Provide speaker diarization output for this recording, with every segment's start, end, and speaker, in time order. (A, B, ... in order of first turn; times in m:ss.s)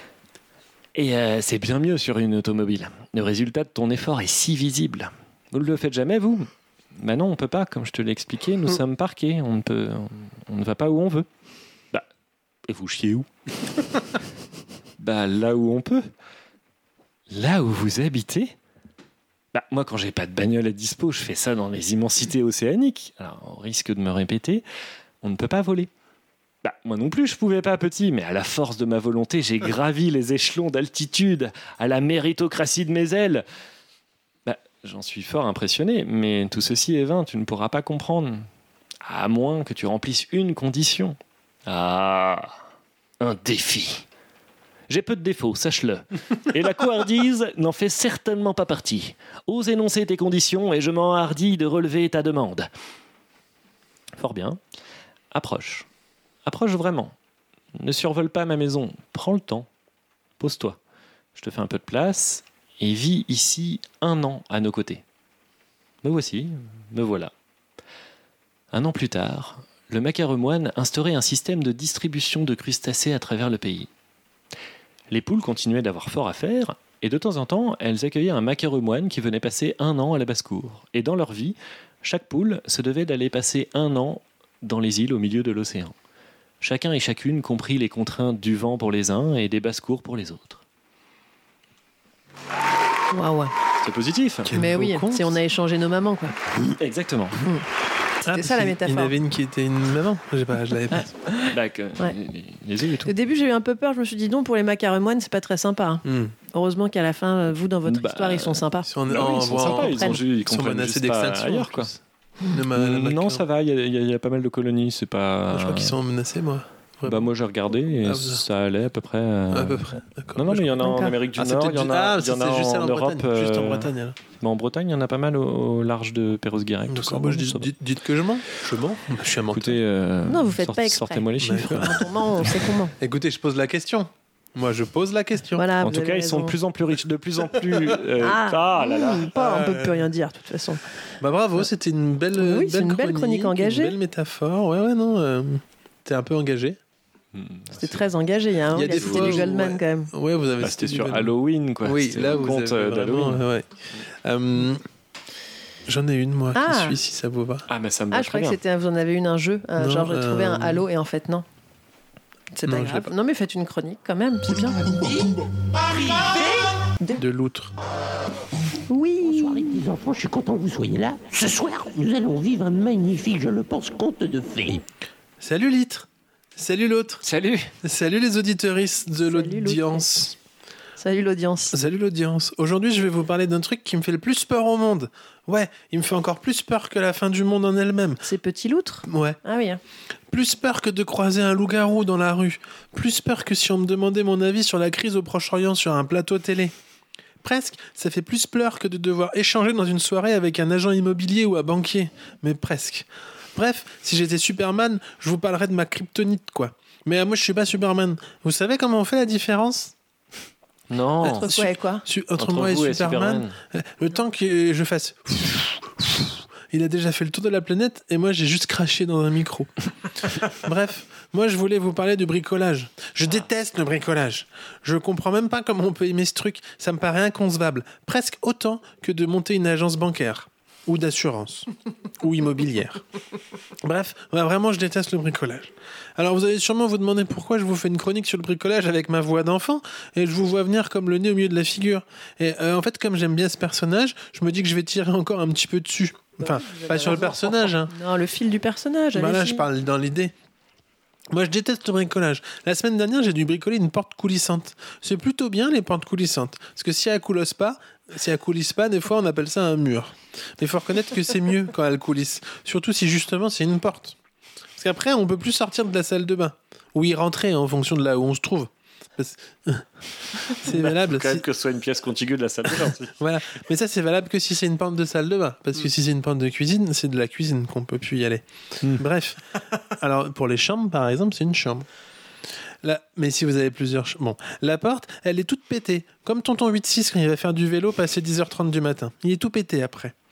0:00.9-0:11.3 A
0:12.7-0:13.3 A
0:15.0-0:16.0 A
0:17.3-0:18.5 A
0:19.5-0:24.6 A
0:25.2-0:25.9 A
0:26.6-0:33.4 A
0:34.4-0:38.5 A
0:39.0-0:42.6 A
0:43.2-0:44.0 A
0:44.9-0:52.7 A
0:54.2-0:54.6 A
0:55.3-0:55.9 A
0:56.4-0:57.1 A
0:57.8-0:59.7 A
1:00.4-1:00.8 A
1:01.4-1:05.0 A
1:06.0-1:07.3 A
1:08.7-1:13.9 A
1:15.1-1:25.9 A
1:26.6-1:30.6 A
1:33.1-1:33.5 B
1:33.8-1:34.5 A
1:34.4-1:35.4 C
1:34.5-1:36.4 B
1:36.7-1:37.4 A
1:38.2-1:41.1 C
1:38.2-1:39.1 B
1:41.0-1:42.1 B
1:41.5-1:43.1 A
1:43.0-1:50.2 B
1:46.0-1:46.3 C
1:47.8-1:51.9 A
1:48.8-1:53.4 C
1:52.7-1:56.0 A
1:55.5-1:57.3 C
1:57.0-2:07.7 A
1:58.0-1:58.4 C
1:59.5-2:04.2 C
2:00.8-2:01.1 B
2:06.8-2:09.8 C
2:09.5-2:12.0 A
2:10.3-2:12.9 B
2:11.4-2:15.7 C
2:15.6-2:16.5 B
2:15.8-2:19.3 A
2:18.2-2:20.8 B
2:19.3-2:20.0 C
2:21.2-2:26.8 C
2:22.4-2:24.0 B
2:27.3-2:28.0 A
2:27.7-2:30.1 B
2:28.7-2:33.7 C
2:28.9-2:29.4 A
2:30.6-2:33.4 A
2:34.2-2:34.8 C
2:35.9-2:37.7 C
2:36.5-2:37.0 B
2:37.7-2:38.6 A
2:38.1-2:41.4 B
2:39.8-2:40.8 C
2:42.5-2:45.2 B
2:42.6-2:43.1 C
2:46.0-2:47.2 B
2:47.2-2:47.7 C
2:48.9-2:49.8 B
2:49.2-2:54.8 D
2:55.4-2:57.2 C
2:57.2-2:57.7 A
2:57.8-3:00.3 C
2:59.2-3:00.1 B
3:01.0-3:01.8 B
3:01.7-3:08.2 C
3:08.2-3:09.8 B
3:09.0-3:09.4 C
3:10.3-3:16.7 C
3:17.4-3:29.9 C
3:30.9-3:31.5 A
3:31.2-3:32.0 B
3:31.4-3:39.7 C
3:32.4-3:33.6 A
3:40.6-3:51.7 C
3:52.2-3:53.0 C
3:53.8-4:07.9 C
4:06.4-4:09.6 B
4:09.1-4:10.3 C
4:11.3-4:24.2 C
4:24.8-4:29.8 C
4:30.6-4:31.4 C
4:30.7-4:33.2 A
4:33.2-4:39.4 C
4:40.0-4:41.8 C
4:42.8-4:50.1 C